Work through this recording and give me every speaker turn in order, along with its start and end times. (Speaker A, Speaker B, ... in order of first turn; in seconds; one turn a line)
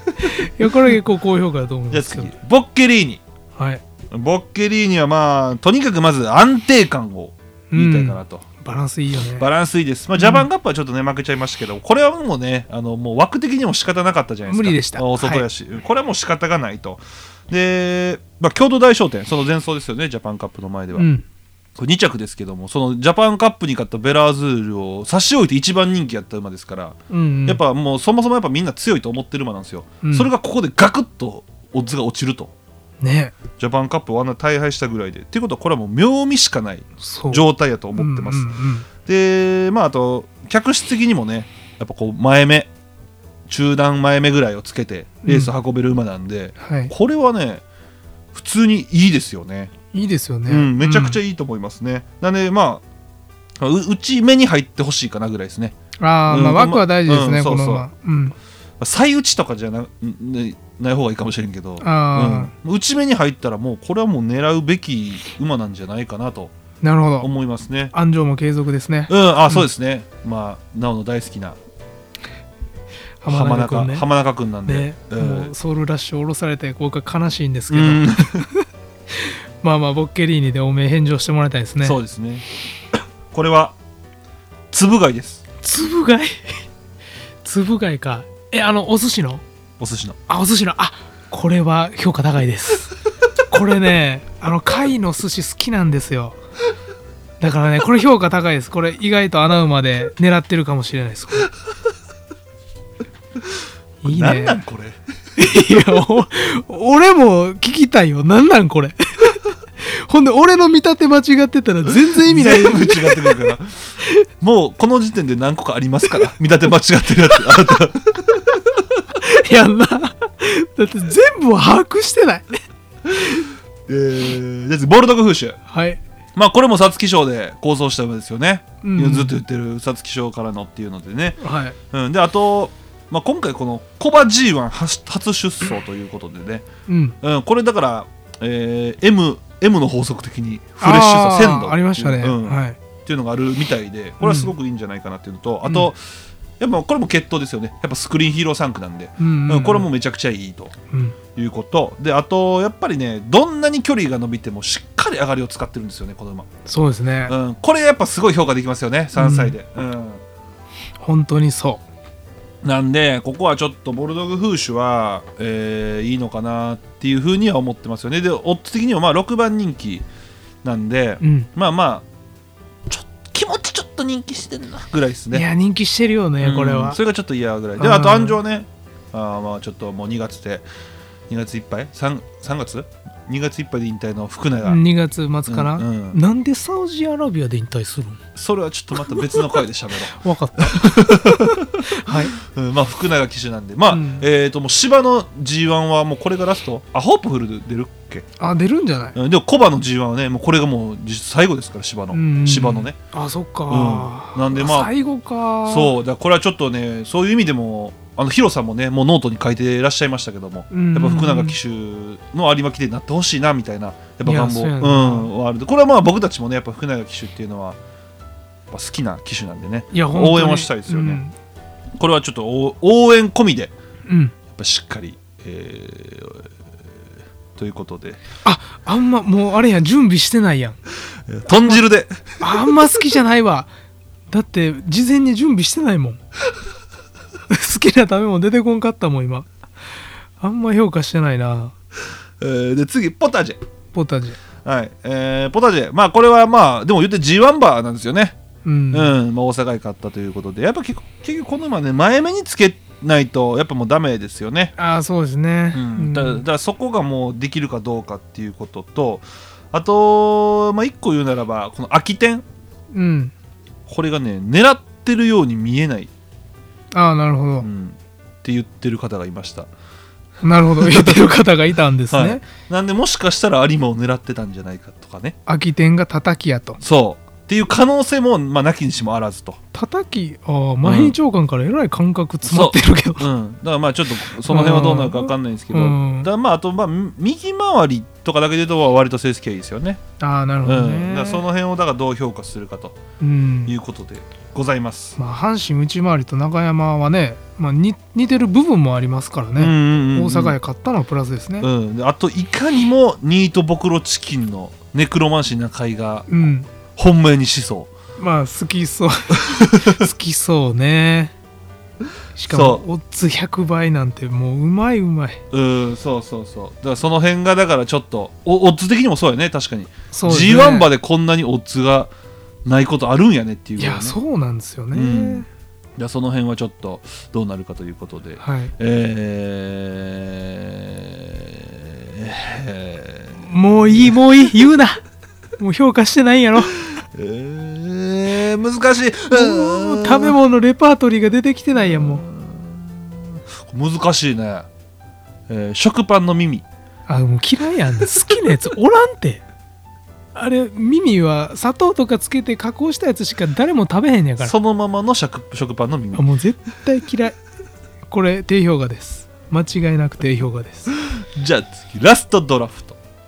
Speaker A: 0.2-0.4
Speaker B: 0.2-2.3
Speaker A: 1.9-3.2
Speaker B: 3.5-3.8
Speaker A: 4.1-8.4
Speaker B: 7.7-9.5
Speaker A: 9.4-21.1
Speaker B: 10.2-10.5
Speaker B: 14.5-15.4
Speaker B: 20.9-21.2
Speaker A: 21.8-32.5
Speaker B: 27.1-27.6
Speaker B: 30.0-30.3
Speaker B: 33.0-33.3
Speaker A: 33.6-38.5
Speaker B: 37.0-37.4
Speaker B: 38.0-38.9
Speaker A: 39.0-42.7
Speaker A: 43.5-47.6
Speaker B: 45.2-45.5
Speaker B: 46.6-46.9
Speaker A: 48.3-49.7
Speaker B: 49.9-51.2
Speaker A: 50.5-52.8
Speaker A: 53.6-55.7
Speaker B: 56.0-58.4
Speaker A: 56.3-57.9
Speaker A: 58.8-66.5
Speaker B: 61.8-62.5
Speaker B: 66.8-67.3
Speaker A: 67.2-67.9
Speaker B: 67.9-69.7
Speaker A: 69.1-71.6
Speaker B: 73.2-74.0
Speaker A: 73.3-75.5
Speaker B: 74.7-82.0
Speaker A: 77.7-78.5
Speaker A: 81.8-82.4
Speaker A: 83.3-83.7
Speaker A: 84.7-85.4
Speaker B: 85.6-86.6
Speaker B: 87.4-89.4
Speaker A: 89.8-90.2
Speaker B: 90.3-92.9
Speaker B: 93.5-96.4
Speaker B: 97.4-101.5
Speaker B: 104.0-104.6
Speaker A: 104.0-105.0
Speaker B: 105.4-114.2
Speaker A: 111.9-118.6
Speaker B: 119.1-122.6
Speaker A: 123.1-125.6
Speaker B: 125.7-126.0
Speaker A: 126.3-131.4
Speaker B: 128.8-129.3
Speaker B: 131.4-131.8
Speaker A: 131.9-136.7
Speaker B: 136.9-137.2
Speaker A: 137.2-146.0
Speaker B: 140.8-142.8
Speaker B: 144.2-144.5
Speaker A: 146.6-150.7
Speaker B: 149.2-149.9
Speaker B: 150.9-151.2
Speaker A: 151.3-156.5
Speaker B: 156.7-157.3
Speaker A: 157.3-160.2
Speaker B: 159.1-159.5
Speaker B: 161.0-161.8
Speaker A: 162.6-170.0
Speaker A: 170.6-172.0
Speaker B: 171.2-171.5
Speaker A: 172.9-175.4
Speaker B: 175.3-177.0
Speaker A: 176.4-180.6
Speaker B: 177.8-178.4
Speaker A: 181.3-184.8
Speaker B: 184.6-188.2
Speaker A: 185.5-186.2
Speaker A: 188.3-198.2
Speaker B: 189.0-192.3
Speaker B: 193.9-194.2
Speaker B: 198.4-199.2
Speaker A: 199.1-202.9
Speaker B: 202.1-205.9
Speaker A: 203.7-204.9
Speaker A: 205.6-217.8
Speaker B: 210.7-211.6
Speaker B: 214.2-215.3
Speaker A: 218.7-221.2
Speaker B: 219.9-221.3
Speaker A: 222.0-223.7
Speaker B: 224.1-224.3
Speaker A: 224.5-226.5
Speaker A: 227.5-228.2
Speaker B: 228.4-230.8
Speaker A: 231.3-232.6
Speaker B: 231.5-231.8
Speaker B: 232.4-233.7
Speaker B: 234.3-236.2
Speaker B: 237.5-239.5
Speaker B: 240.4-241.7
Speaker A: 242.4-243.6
Speaker B: 243.9-244.4
Speaker A: 244.6-248.4
Speaker B: 248.6-249.1
Speaker A: 248.9-254.7
Speaker B: 254.8-256.4
Speaker A: 255.7-262.4
Speaker B: 262.9-263.3
Speaker A: 263.9-266.1
Speaker B: 266.9-267.7
Speaker A: 267.6-269.7
Speaker B: 270.4-272.4
Speaker A: 270.8-271.2
Speaker A: 272.1-275.4
Speaker B: 275.4-276.8
Speaker A: 276.8-279.6
Speaker B: 279.7-283.3
Speaker A: 280.8-281.1
Speaker A: 282.4-290.0
Speaker B: 284.4-286.3
Speaker B: 290.2-291.4
Speaker A: 290.6-293.0
Speaker B: 293.2-293.7
Speaker A: 293.6-295.2
Speaker B: 295.2-301.7
Speaker A: 299.6-300.6
Speaker A: 301.6-307.9
Speaker B: 306.3-306.7
Speaker B: 308.2-311.3
Speaker A: 309.3-310.1
Speaker B: 312.4-315.4
Speaker A: 312.5-312.8
Speaker A: 315.5-322.1
Speaker B: 320.1-320.9
Speaker A: 322.6-324.2
Speaker B: 323.8-325.4
Speaker A: 324.9-325.4
Speaker A: 326.0-334.2
Speaker B: 328.4-328.7
Speaker B: 333.4-335.0
Speaker B: 335.6-336.8
Speaker A: 336.9-340.4
Speaker B: 339.3-342.2
Speaker A: 341.8-344.7
Speaker A: 345.5-346.6
Speaker B: 347.1-349.4
Speaker B: 350.3-354.5
Speaker A: 354.4-356.2
Speaker B: 356.1-357.4
Speaker B: 358.1-360.9
Speaker A: 361.1-363.0